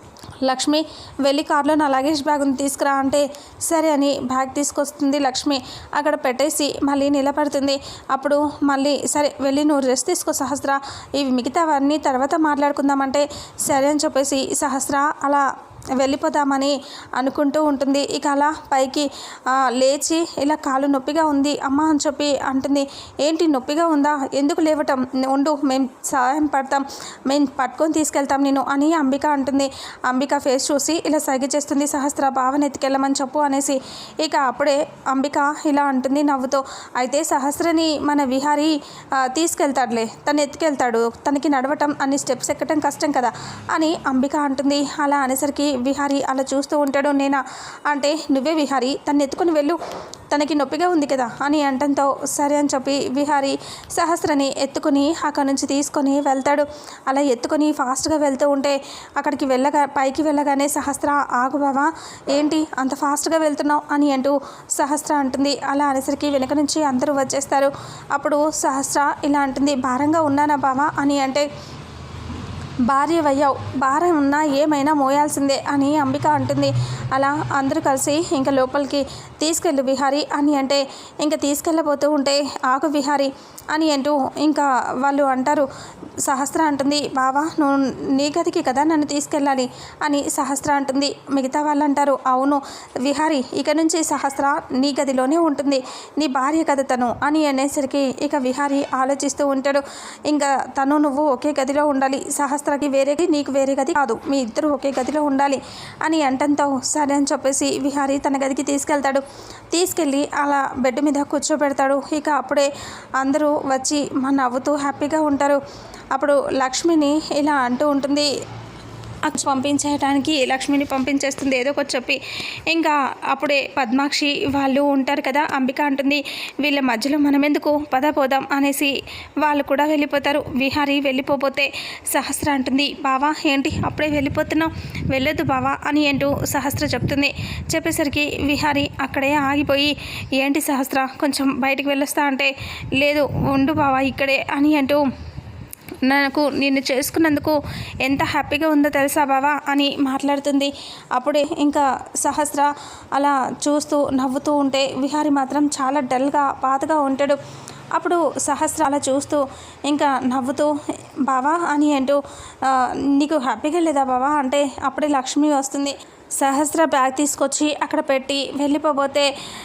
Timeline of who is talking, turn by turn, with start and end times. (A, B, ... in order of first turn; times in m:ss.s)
0:00.4-0:49.8 A
0:50.3-1:11.5 A
1:12.8-1:25.7 A
1:26.2-1:55.6 A
1:56.1-1:58.3 A
1:59.2-2:25.1 A
2:26.0-2:37.4 A
2:37.9-2:49.3 A